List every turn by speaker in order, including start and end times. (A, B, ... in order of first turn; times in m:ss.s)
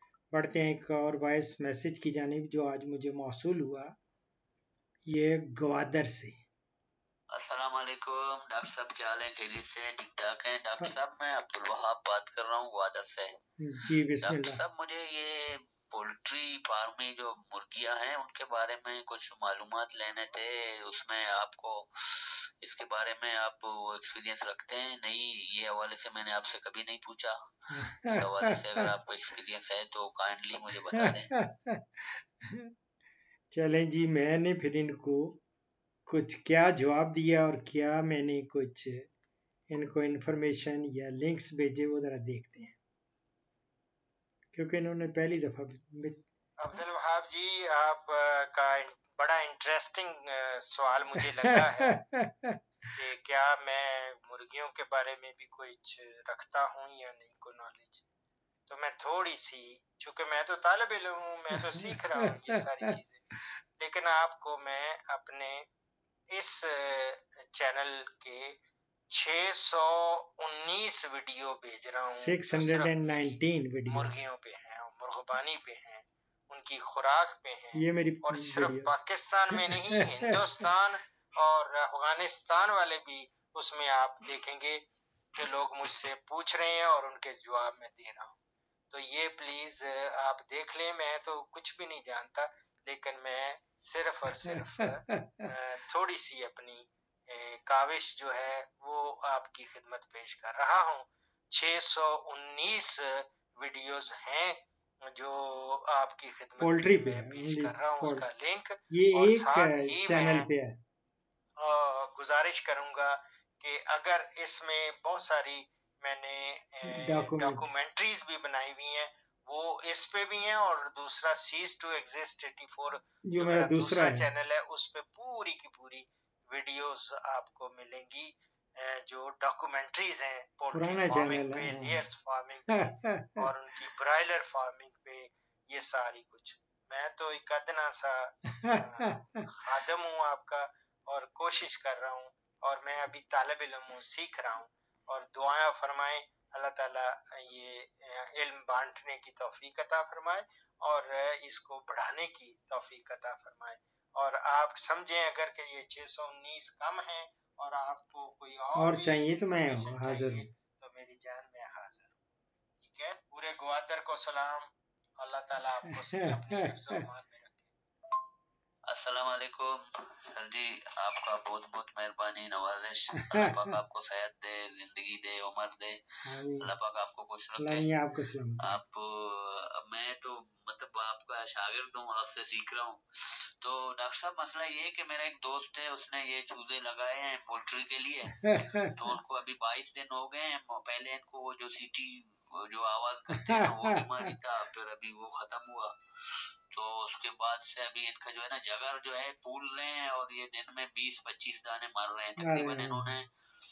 0:00.3-0:04.0 A
0:05.1-0:06.4 A
0:07.4-0:13.3 B
0:13.6-0:14.6 A
0:14.2-0:31.3 B
0:27.8-0:28.6 A
0:31.0-0:31.8 A
0:33.5-0:35.4 A
0:36.1-0:39.1 A
0:39.7-0:42.8 A
0:44.5-0:46.2 A
0:46.6-0:52.0 C
0:51.4-0:51.9 A
0:53.0-0:58.0 C
0:58.7-1:03.2 C
1:03.8-1:05.7 C
1:06.3-1:08.6 C
1:09.1-1:13.4 C
1:12.1-1:14.1 A
1:13.9-1:28.4 C
1:17.7-1:19.0 A
1:19.7-1:20.4 A
1:28.9-1:50.5 C
1:46.6-1:48.3 A
1:48.9-1:50.8 A
1:51.6-2:42.2 C
1:56.9-1:57.7 A
2:03.3-2:04.3 A
2:10.7-2:12.0 A
2:12.7-2:13.2 A
2:18.7-2:19.2 A
2:38.8-2:40.5 A
2:42.8-2:47.7 C
2:48.9-2:55.9 B
2:56.3-2:56.7 A
2:56.6-2:57.9 B
2:57.6-2:58.8 A
2:58.6-3:03.0 B
3:03.6-3:23.3 B
3:08.5-3:09.0 A
3:13.5-3:14.0 A
3:22.4-3:23.1 A